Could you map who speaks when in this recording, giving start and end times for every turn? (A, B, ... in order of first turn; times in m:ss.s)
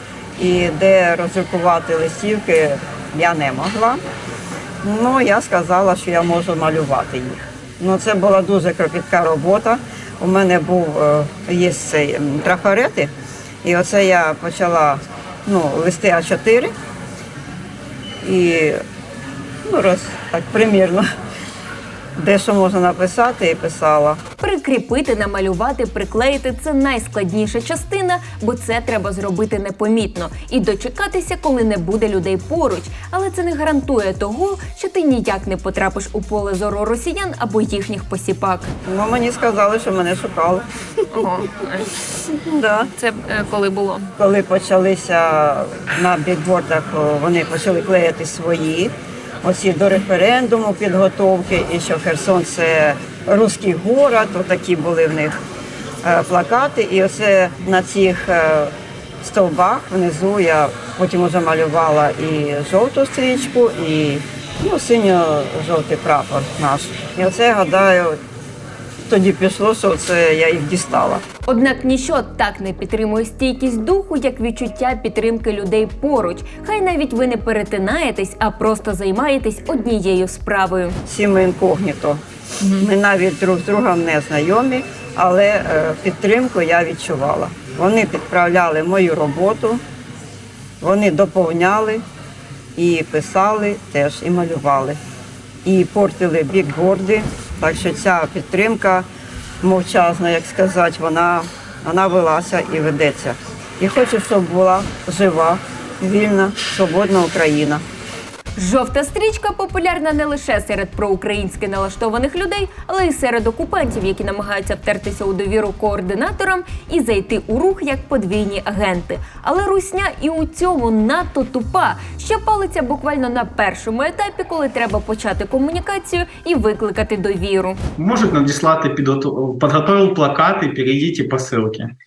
0:00.4-0:04.0 A
0:04.8-0:13.1 A
0:13.6-0:16.7 A
0:18.2-0:18.8 A
0:19.6-0:21.0 A
0:22.2-0:24.2 A
0:24.4-0:38.7 B
0:38.9-0:40.6 A
0:41.1-0:41.9 B
0:42.4-0:42.9 A
0:42.9-0:44.1 B
0:44.2-0:48.9 A
0:49.4-0:55.3 A
0:56.0-1:08.2 A
1:09.1-1:11.2 A
1:11.5-1:21.0 B
1:21.0-1:22.2 A
1:22.7-1:29.8 A
1:30.8-1:32.0 A
1:32.8-1:35.0 A
1:35.6-1:39.0 A
1:39.6-1:47.8 A
1:48.6-2:07.8 B
2:08.0-2:11.9 C